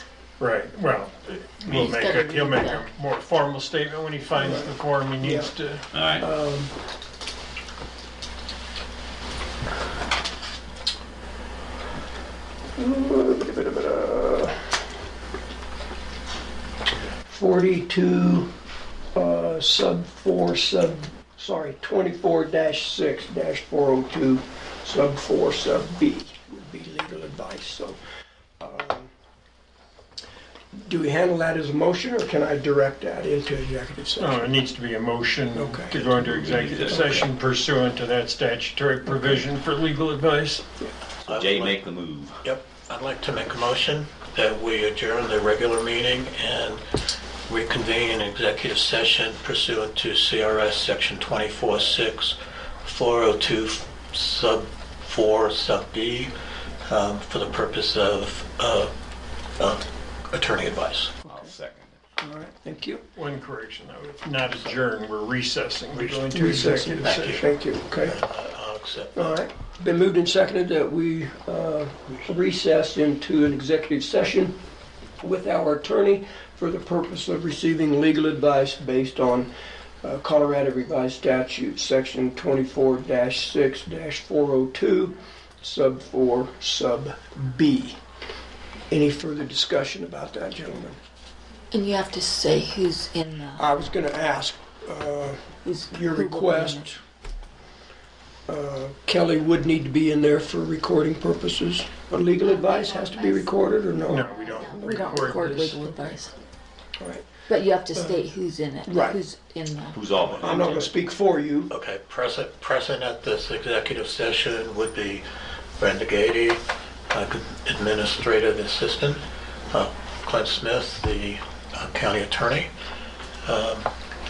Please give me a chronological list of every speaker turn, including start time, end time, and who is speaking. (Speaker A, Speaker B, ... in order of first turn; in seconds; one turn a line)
Speaker A: 0.4-5.9
Speaker B: 1.7-2.9
Speaker C: 4.4-5.5
Speaker D: 5.9-6.3
Speaker C: 6.2-6.8
Speaker C: 12.8-14.7
Speaker C: 17.3-18.5
Speaker C: 19.1-28.0
Speaker C: 28.6-29.1
Speaker C: 30.9-34.5
Speaker A: 34.2-40.6
Speaker C: 35.5-36.1
Speaker D: 36.2-37.3
Speaker C: 36.8-37.3
Speaker D: 41.3-42.4
Speaker E: 41.3-41.8
Speaker E: 42.4-46.8
Speaker E: 47.5-56.3
Speaker E: 56.9-58.9
Speaker E: 59.6-61.2
Speaker D: 61.2-62.0
Speaker C: 61.3-61.5
Speaker C: 62.2-63.0
Speaker A: 63.2-67.2
Speaker E: 65.9-69.5
Speaker C: 66.3-68.2
Speaker C: 69.2-74.5
Speaker C: 75.2-79.5
Speaker C: 80.0-88.0
Speaker C: 88.9-91.0
Speaker B: 91.7-93.7
Speaker C: 93.5-97.0
Speaker B: 95.6-96.9
Speaker C: 98.5-104.3
Speaker B: 102.4-103.5
Speaker A: 104.1-105.8
Speaker B: 104.7-106.3
Speaker C: 105.4-105.9
Speaker C: 107.0-107.3
Speaker B: 107.5-110.0
Speaker C: 107.9-108.3
Speaker C: 108.8-109.2
Speaker D: 109.9-111.0
Speaker C: 110.4-111.7
Speaker E: 111.7-115.3
Speaker E: 115.8-122.7
Speaker E: 123.5-123.9